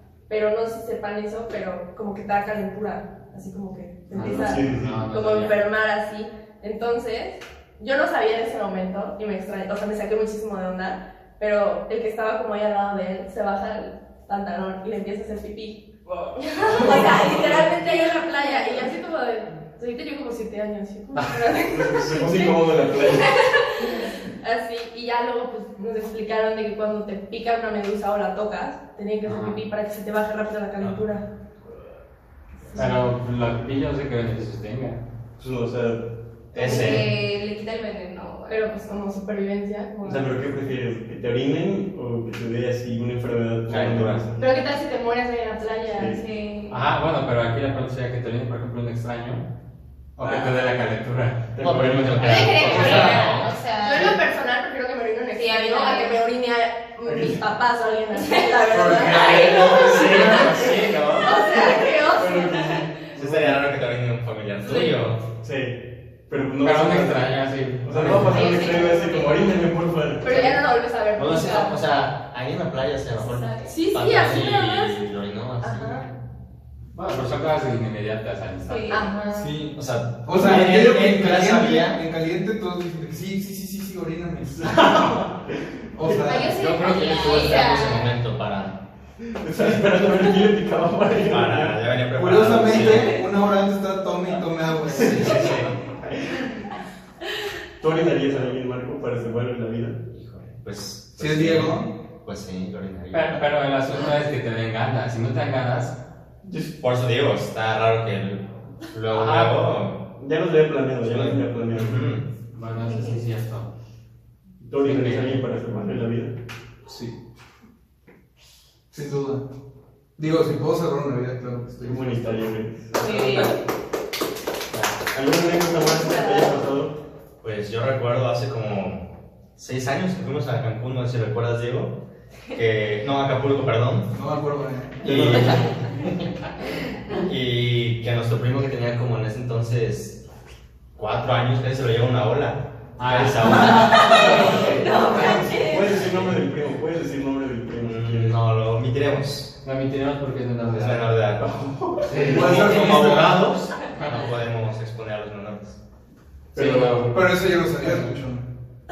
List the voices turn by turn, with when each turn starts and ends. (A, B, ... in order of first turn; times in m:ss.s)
0:00.3-0:23.1 A
0:04.1-0:05.6 B
0:04.1-0:05.0 C
0:16.4-0:18.9 D
0:21.5-0:23.3 C
0:23.2-0:24.0 D
0:23.8-0:31.2 A
0:29.2-0:29.6 B
0:32.6-0:33.0 A
0:32.8-0:35.0 B
0:35.4-0:36.0 C
0:36.5-0:37.1 E
0:36.5-0:38.8 D
0:36.6-0:37.0 A
0:38.5-0:40.3 A
0:40.0-0:44.4 C
0:43.7-0:44.2 E
0:44.4-0:46.2 A
0:46.0-0:46.8 D
0:46.7-0:49.4 B
0:50.2-0:53.4 B
0:50.2-0:50.6 C
0:51.5-0:53.1 C
0:51.6-0:53.5 E
0:52.2-0:54.2 D
0:52.7-1:02.6 A
0:55.3-0:56.2 D
0:57.0-0:57.4 C
0:58.2-1:00.5 D
0:58.7-1:01.3 B
0:59.8-1:01.2 E
1:01.2-1:02.5 D
1:02.1-1:03.5 C
1:03.1-1:05.2 E
1:04.6-1:05.0 D
1:05.4-1:10.5 C
1:06.6-1:08.6 B
1:08.2-1:09.6 D
1:08.4-1:09.5 A
1:10.2-1:11.8 A
1:11.1-1:16.1 E
1:13.2-1:15.1 A
1:13.4-1:13.7 D
1:15.6-1:16.1 A
1:16.9-1:19.0 B
1:18.6-1:19.1 D
1:18.9-1:19.6 A
1:19.3-1:25.2 F
1:19.7-1:22.0 E
1:24.6-1:26.4 C
1:25.9-1:26.5 F
1:26.2-1:28.1 D
1:26.6-1:28.8 E
1:26.7-1:27.8 B
1:29.2-1:31.8 C
1:31.2-1:33.2 E
1:32.1-1:35.6 F
1:32.7-1:33.2 D
1:34.9-1:35.5 C
1:34.9-1:35.9 E
1:36.0-1:36.7 C
1:37.8-1:40.0 C
1:40.1-1:43.4 E
1:41.2-1:41.9 F
1:43.1-1:46.0 B
1:46.4-1:46.7 C
1:46.8-1:50.0 E
1:49.1-1:49.6 B
1:50.1-1:52.1 C
1:51.0-1:52.3 E
1:52.5-1:53.7 B
1:54.6-1:56.3 C
1:54.8-1:55.4 B
1:56.8-1:57.2 F
1:58.9-1:59.4 F
2:00.2-2:02.1 F
2:01.8-2:03.5 C
2:03.0-2:03.6 D
2:04.7-2:05.0 B
2:05.1-2:06.9 C
2:05.8-2:06.5 D
2:07.4-2:11.9 E
2:12.5-2:14.1 E
2:14.1-2:15.4 F
2:15.0-2:15.8 C
2:15.0-2:16.2 E
2:17.1-2:20.2 E
2:21.0-2:24.7 E
2:23.0-2:25.5 B
2:23.7-2:24.5 F
2:23.7-2:26.0 D
2:25.1-2:25.5 F
2:25.5-2:28.4 C
2:25.9-2:26.3 E
2:27.8-2:29.5 E
2:29.6-2:31.1 B
2:30.6-2:31.5 E
2:31.4-2:33.2 C
2:32.1-2:32.6 B
2:32.2-2:35.8 E
2:32.2-2:33.5 F
2:36.5-2:37.2 C
2:36.5-2:37.3 B
2:37.1-2:38.4 F